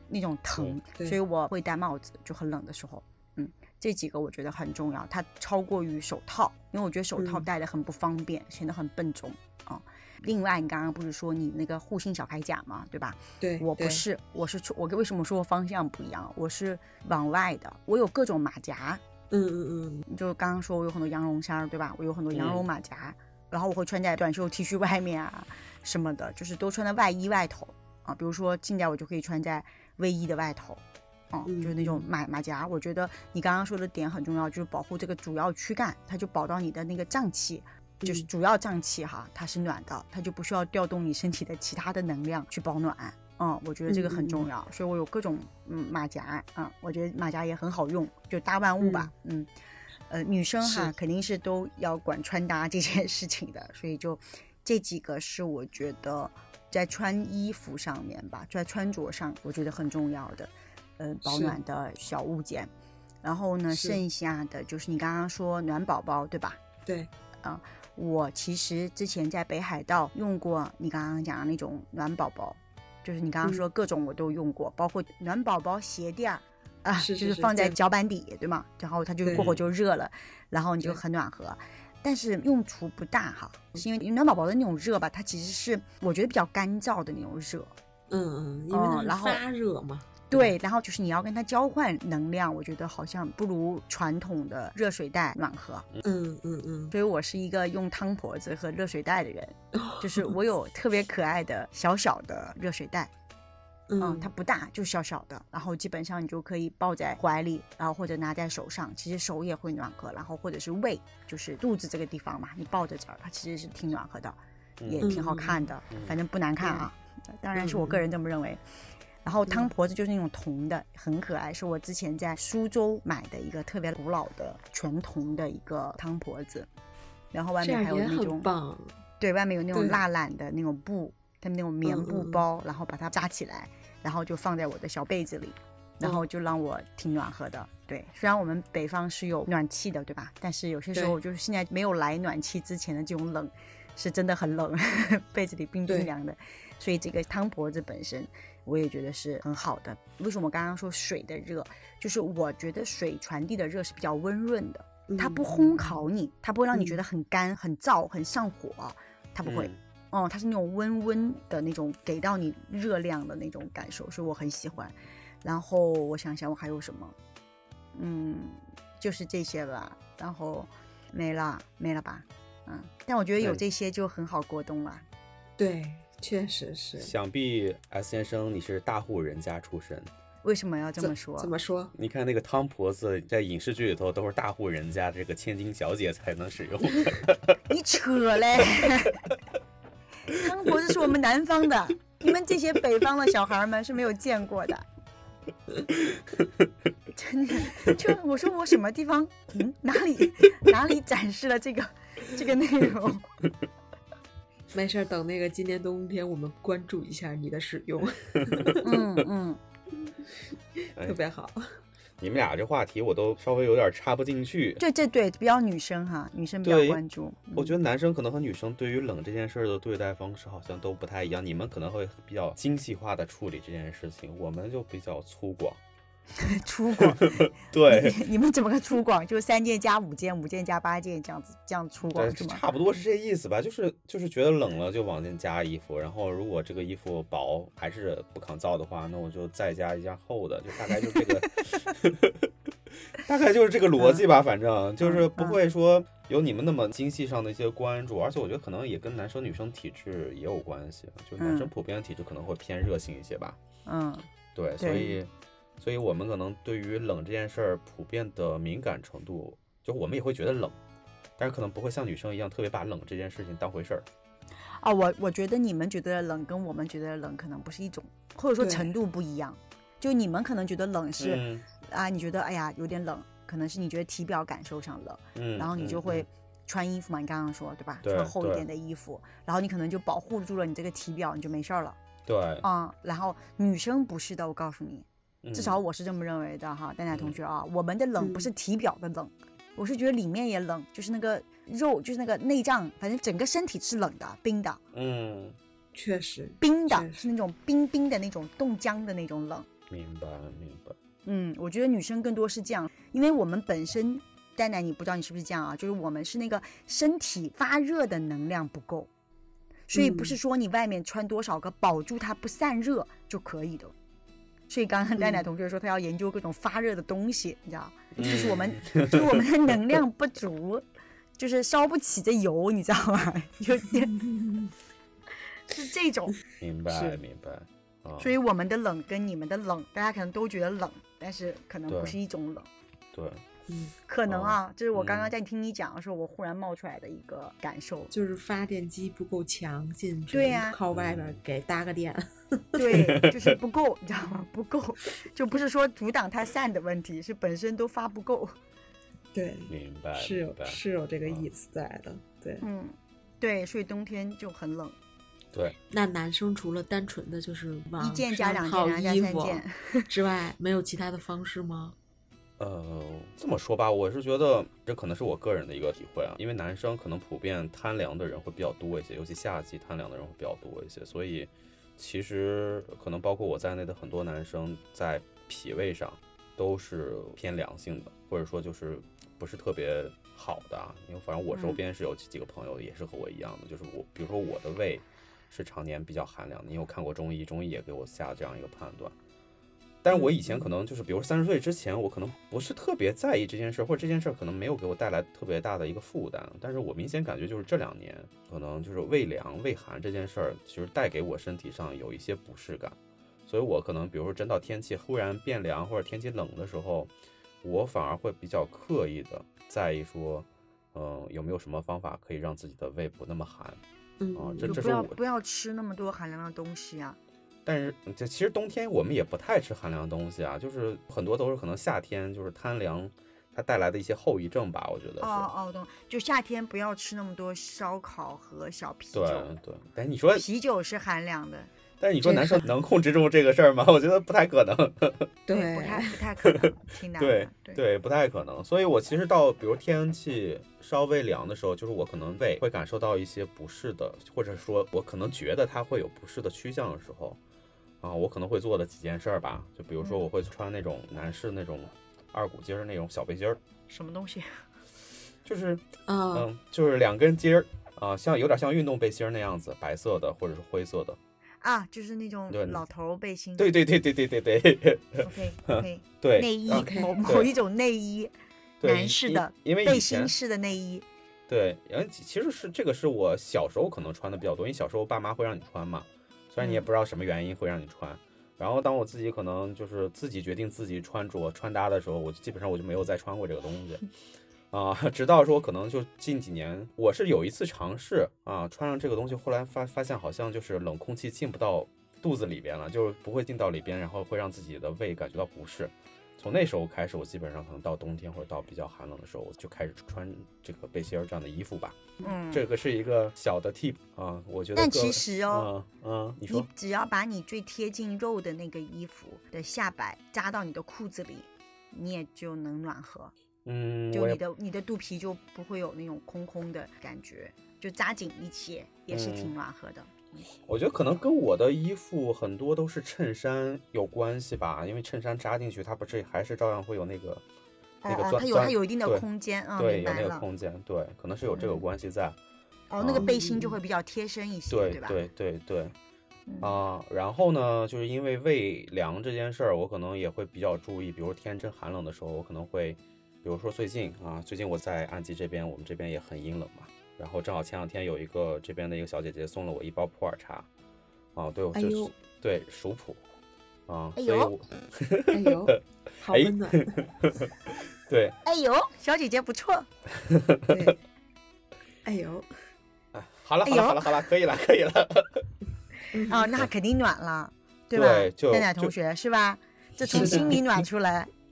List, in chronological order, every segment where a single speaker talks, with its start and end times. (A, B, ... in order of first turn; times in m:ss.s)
0:00.1-0:19.0 A
0:07.2-0:07.5 B
0:13.4-0:14.0 B
0:19.3-0:20.1 B
0:20.1-0:49.5 A
0:22.3-0:22.7 C
0:31.5-0:32.1 B
0:38.0-0:38.3 B
0:43.9-0:44.5 B
0:48.8-0:49.1 B
0:50.1-1:02.7 A
0:50.6-0:50.9 B
1:01.2-1:01.6 B
1:03.2-1:06.6 A
1:03.7-1:04.0 B
1:07.4-1:27.7 A
1:17.0-1:17.8 B
1:19.3-1:19.6 C
1:28.1-1:30.6 B
1:28.7-1:29.4 A
1:30.3-1:35.9 A
1:36.0-1:36.9 B
1:36.9-1:43.1 A
1:39.7-1:40.3 B
1:43.9-1:44.3 B
1:44.0-1:58.6 A
1:54.8-1:55.2 C
1:55.0-1:55.7 B
1:55.9-1:56.2 C
1:56.6-1:56.9 B
1:57.6-1:58.0 B
1:59.2-2:06.7 A
2:07.3-2:08.5 A
2:07.6-2:09.0 B
2:09.2-2:47.2 A
2:09.7-2:10.0 B
2:11.8-2:12.4 B
2:35.1-2:36.0 B
2:36.7-2:37.0 B
2:39.4-2:39.8 C
2:48.0-2:55.0 A
2:55.6-2:57.1 B
2:57.0-3:00.1 C
3:00.4-3:01.5 A
3:01.0-3:01.9 B
3:01.9-3:07.6 C
3:07.7-3:09.3 A
3:10.3-3:14.9 A
3:17.1-3:23.3 A
3:24.7-3:29.0 B
3:28.5-3:28.7 C
3:28.8-3:29.6 A
3:30.4-3:31.7 B
3:32.2-3:34.8 C
3:34.8-3:37.8 A
3:36.6-3:37.0 C
3:37.6-3:45.8 C
3:46.4-3:52.6 A
3:47.0-3:48.2 C
3:52.2-4:02.5 C
4:03.1-4:13.6 C
4:04.0-4:04.2 A
4:05.0-4:05.6 A
4:11.4-4:11.7 A
4:13.9-4:14.3 A
4:14.6-4:20.8 C
4:14.8-4:15.2 A
4:21.4-4:24.1 C
4:24.8-4:42.0 A
4:28.6-4:28.9 B
4:31.2-4:31.6 C
4:35.4-4:36.3 C
4:38.0-4:38.7 C
4:42.3-4:42.6 C
4:42.6-4:54.8 A
4:45.4-4:45.8 C
4:48.2-4:48.5 B
4:54.9-4:55.6 C
4:55.9-4:57.3 B
4:56.6-4:59.7 A
4:59.9-5:01.0 C
5:01.2-5:09.1 A
5:09.9-5:13.9 A
5:09.9-5:10.4 B
5:14.7-5:20.8 A
5:15.2-5:15.4 B
5:18.2-5:19.4 C
5:21.4-5:24.2 A
5:25.7-5:26.4 A
5:26.6-5:28.3 C
5:26.9-5:27.2 B
5:28.2-5:32.7 A
5:31.9-5:32.2 C
5:33.1-5:33.4 C
5:33.7-5:33.9 B
5:34.1-5:38.1 A
5:34.3-5:35.3 C
5:38.1-5:43.0 B
5:40.3-5:40.8 A
5:40.9-5:41.4 C
5:42.8-5:48.6 A
5:42.9-5:43.6 C
5:49.3-5:52.7 B
5:49.7-5:51.5 C
5:52.6-5:55.0 A
5:55.9-6:02.0 B
5:58.0-6:00.1 A
6:02.6-6:29.2 C
6:21.5-6:21.8 A
6:30.0-6:53.8 C
6:30.1-6:30.7 B
6:54.2-6:54.8 B
6:54.4-6:55.2 C
6:54.6-6:57.2 A
6:57.6-7:05.5 C
7:05.2-7:09.5 A
7:09.1-7:10.4 C
7:10.4-7:11.7 A
7:12.0-7:15.3 C
7:12.2-7:12.7 B
7:15.5-7:16.2 B
7:15.5-7:17.8 A
7:16.6-7:27.4 C
7:28.0-7:33.6 C
7:33.9-7:34.5 A
7:35.4-7:41.2 C
7:36.1-7:36.5 B
7:41.6-7:43.7 A
7:42.5-7:42.8 C
7:43.6-7:47.5 C
7:45.2-7:48.3 A
7:46.7-7:47.1 B
7:48.8-7:50.3 C
7:48.8-7:51.1 A
7:51.5-8:04.0 C
8:04.7-8:26.7 C
8:22.2-8:22.6 A
8:24.8-8:25.7 A
8:26.5-8:33.3 A
8:33.6-8:34.4 C
8:34.1-8:40.4 A
8:39.1-8:39.5 C
8:40.6-8:47.4 C
8:48.0-8:50.4 A
8:48.1-8:49.2 C
8:49.8-8:52.4 C
8:51.5-8:51.8 A
8:52.9-8:55.2 A
8:53.0-8:53.3 C
8:53.2-8:53.8 B
8:54.7-8:56.0 C
8:56.5-8:56.8 A
8:56.6-9:10.7 C
9:11.4-9:13.2 C
9:11.7-9:12.1 B
9:13.9-9:18.4 C
9:14.2-9:14.5 A
9:15.3-9:17.0 B
9:18.4-9:19.9 A
9:20.2-9:20.9 C
9:20.7-9:21.0 B
9:22.0-9:22.5 B
9:23.1-9:25.5 C
9:23.6-9:24.2 A
9:26.1-9:26.5 B
9:26.3-9:31.3 A
9:27.9-9:28.9 C
9:30.1-9:30.6 B
9:30.1-9:30.5 C